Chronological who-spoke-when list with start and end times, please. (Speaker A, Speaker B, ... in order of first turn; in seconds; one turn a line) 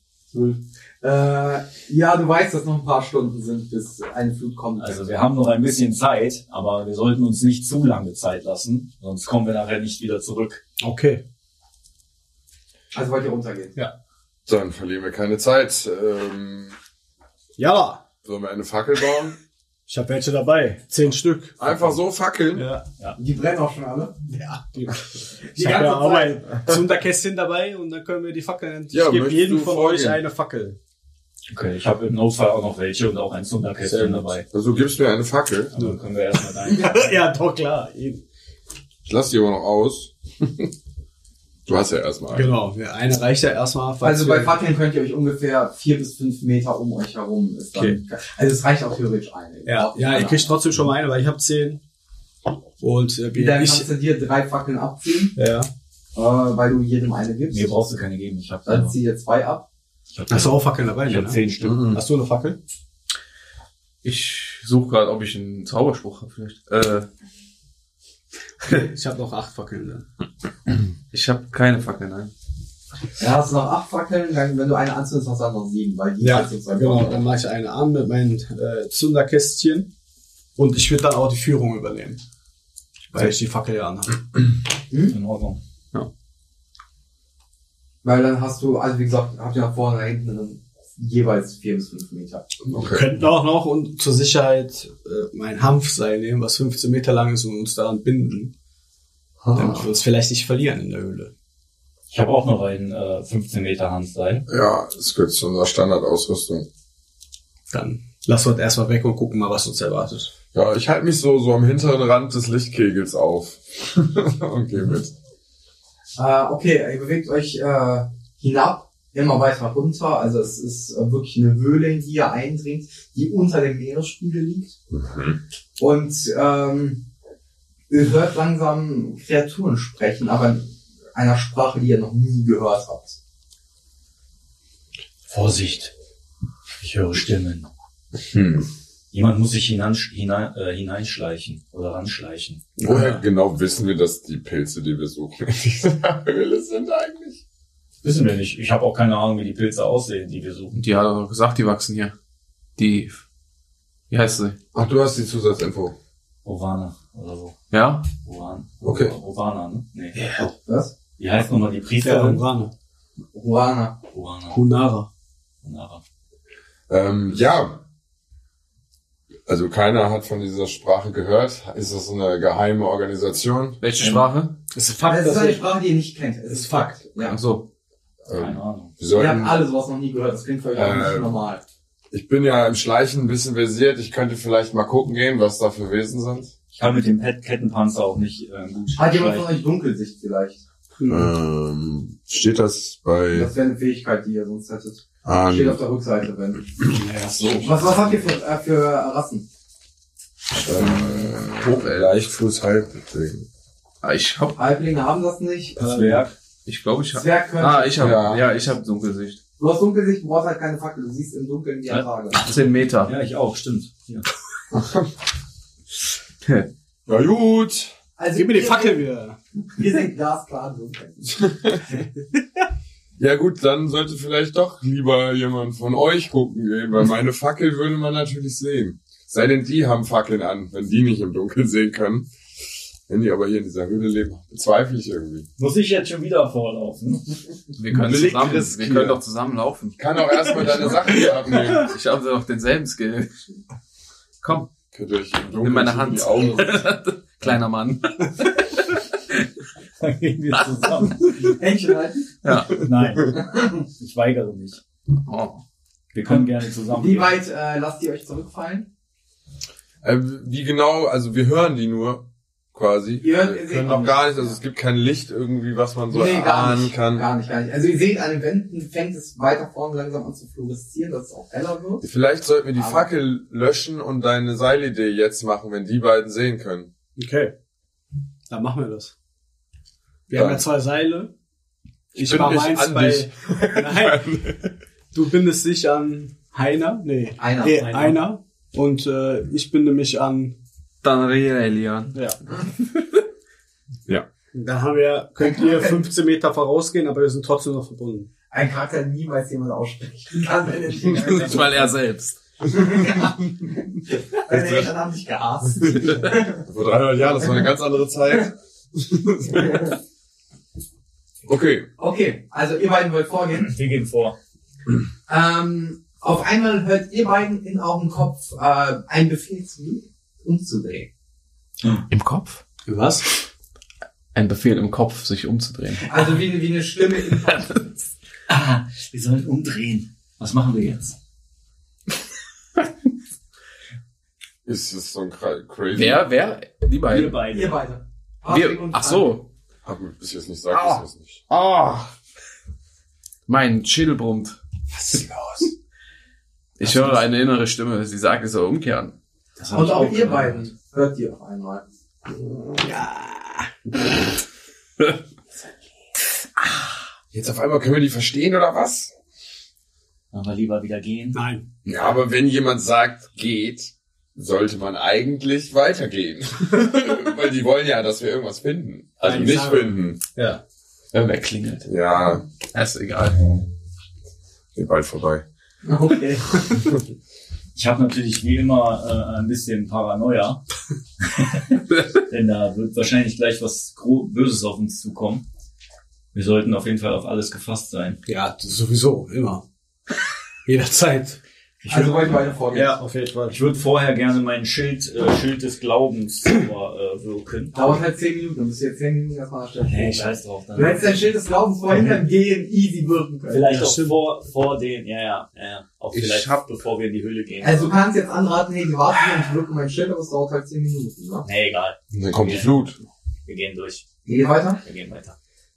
Speaker A: 0.3-5.1
Speaker B: 4.8-10.6
Speaker C: 10.8-11.2
Speaker A: 12.9-13.8
Speaker D: 14.4-16.8
Speaker C: 17.6-18.0
Speaker D: 18.2-19.4
Speaker C: 19.9-21.8
Speaker D: 21.6-22.7
Speaker C: 22.5-22.8
Speaker A: 23.2-24.2
Speaker C: 24.3-30.8
Speaker A: 25.5-26.4
Speaker D: 28.9-30.2
Speaker B: 31.5-34.5
Speaker D: 33.9-35.7
Speaker B: 35.7-37.2
Speaker C: 36.6-38.2
Speaker D: 39.0-40.7
Speaker D: 41.6-42.5
Speaker C: 42.3-44.5
Speaker A: 44.0-50.5
Speaker C: 47.7-48.0
Speaker C: 49.6-51.8
Speaker C: 52.8-53.9
Speaker A: 53.3-55.4
Speaker C: 55.4-55.7
Speaker A: 56.1-57.7
Speaker B: 57.5-58.9
Speaker A: 58.7-59.7
Speaker B: 60.1-62.0
Speaker C: 60.3-62.6
Speaker D: 61.6-62.0
Speaker E: 64.0-67.1
Speaker C: 68.6-70.1
Speaker E: 71.1-72.3
Speaker A: 73.2-77.2
Speaker C: 76.2-79.9
Speaker C: 80.5-82.2
Speaker C: 83.1-84.2
Speaker B: 85.1-85.6
Speaker A: 88.0-92.5
Speaker D: 92.6-93.1
Speaker C: 92.8-98.5
Speaker D: 99.4-99.9
Speaker C: 99.5-101.3
Speaker B: 102.1-104.4
Speaker D: 104.5-106.7
Speaker C: 107.7-110.3
Speaker D: 110.5-115.1
Speaker A: 116.2-124.7
Speaker D: 124.9-125.4
Speaker A: 125.8-127.0
Speaker A: 127.9-133.2
Speaker B: 135.3-135.9
Speaker B: 136.8-137.7
Speaker D: 138.3-138.6
Speaker B: 139.1-142.6
Speaker D: 142.8-147.4
Speaker C: 142.8-143.2
Speaker B: 148.0-150.8
Speaker E: 150.7-152.1
Speaker E: 152.8-153.2
Speaker E: 154.1-154.6
Speaker D: 154.7-155.9
Speaker B: 156.4-157.5
Speaker E: 157.7-158.1
Speaker B: 158.2-160.4
Speaker D: 158.8-159.1
Speaker A: 160.5-160.9
Speaker B: 161.2-162.4
Speaker C: 162.0-162.7
Speaker A: 163.3-164.0
Speaker B: 164.1-164.6
Speaker C: 164.5-165.1
Speaker B: 165.6-166.0
Speaker D: 166.9-167.8
Speaker D: 169.5-173.8
Speaker E: 173.8-174.6
Speaker C: 174.7-175.7
Speaker A: 175.0-177.4
Speaker C: 176.5-177.0
Speaker E: 177.2-177.7
Speaker D: 178.2-179.6
Speaker B: 178.3-178.9
Speaker A: 179.1-181.6
Speaker D: 180.7-181.4
Speaker D: 182.1-186.5
Speaker B: 186.7-189.5
Speaker A: 188.9-190.6
Speaker C: 191.0-191.3
Speaker D: 191.1-193.5
Speaker A: 193.3-196.7
Speaker D: 195.2-195.8
Speaker C: 196.9-197.8
Speaker A: 197.4-199.4
Speaker D: 200.5-203.4
Speaker E: 200.8-202.2
Speaker E: 204.0-204.6
Speaker A: 204.6-206.2
Speaker B: 205.8-206.3
Speaker E: 206.7-209.4
Speaker A: 207.1-208.1
Speaker D: 207.9-208.5
Speaker A: 209.6-212.4
Speaker E: 212.3-213.1
Speaker B: 213.0-214.2
Speaker D: 214.7-215.1
Speaker E: 216.4-216.7
Speaker D: 217.1-217.9
Speaker A: 218.2-219.0
Speaker C: 218.3-219.4
Speaker A: 219.8-221.4
Speaker D: 221.3-221.8
Speaker D: 223.2-232.3
Speaker D: 233.1-235.5
Speaker B: 235.6-237.3
Speaker E: 237.8-243.3
Speaker D: 237.9-239.2
Speaker D: 240.0-241.9
Speaker E: 244.4-244.7
Speaker D: 244.9-246.8
Speaker E: 245.6-248.8
Speaker B: 250.0-251.6
Speaker A: 251.4-252.3
Speaker E: 252.4-252.8
Speaker B: 252.7-254.8
Speaker E: 255.2-255.6
Speaker B: 256.1-257.4
Speaker A: 256.9-258.9
Speaker D: 260.0-267.3
Speaker A: 263.2-264.6
Speaker A: 266.1-272.1
Speaker D: 272.0-276.9
Speaker A: 272.8-273.1
Speaker C: 277.2-277.5
Speaker C: 278.5-279.1
Speaker C: 280.3-281.3
Speaker D: 280.3-280.6
Speaker C: 282.1-284.4
Speaker D: 282.1-284.7
Speaker C: 285.1-290.6
Speaker A: 287.4-288.2
Speaker E: 291.0-292.2
Speaker C: 292.1-292.4
Speaker C: 294.5-298.3
Speaker A: 295.4-296.0
Speaker A: 298.5-301.9
Speaker E: 301.2-302.4
Speaker A: 302.7-306.6
Speaker D: 304.5-304.9
Speaker D: 305.8-309.9
Speaker D: 311.4-311.9
Speaker A: 312.0-313.7
Speaker B: 313.5-314.3
Speaker A: 315.3-321.1
Speaker E: 322.1-322.6
Speaker C: 322.9-323.2
Speaker E: 324.3-326.1
Speaker A: 326.0-328.1
Speaker B: 328.5-331.1
Speaker D: 334.6-336.3
Speaker E: 335.9-337.4
Speaker B: 337.1-337.8
Speaker A: 337.4-339.4
Speaker E: 338.4-339.4
Speaker D: 339.8-341.4
Speaker E: 340.7-342.1
Speaker E: 343.5-344.6
Speaker E: 346.8-349.1
Speaker B: 346.8-347.2
Speaker B: 349.6-350.7
Speaker A: 349.7-351.8
Speaker C: 352.8-353.7
Speaker D: 357.3-359.1
Speaker B: 360.3-361.4
Speaker C: 361.3-361.7
Speaker D: 361.8-370.2
Speaker C: 369.2-370.6
Speaker D: 371.1-372.4
Speaker E: 371.2-371.9
Speaker E: 372.7-373.6
Speaker D: 374.7-375.4
Speaker A: 375.8-376.9
Speaker B: 377.7-380.6
Speaker B: 381.3-385.4
Speaker B: 386.3-388.2
Speaker C: 388.2-389.6
Speaker C: 390.6-391.4
Speaker B: 391.8-392.5
Speaker A: 391.9-393.0
Speaker C: 392.7-393.6
Speaker B: 393.5-397.8
Speaker A: 397.7-403.7
Speaker B: 399.9-401.3
Speaker B: 403.5-407.9
Speaker C: 403.6-404.1
Speaker E: 406.1-406.7
Speaker A: 407.6-411.4
Speaker B: 411.4-412.9
Speaker D: 412.1-413.0
Speaker B: 413.4-414.1
Speaker A: 414.2-414.8
Speaker B: 414.8-415.4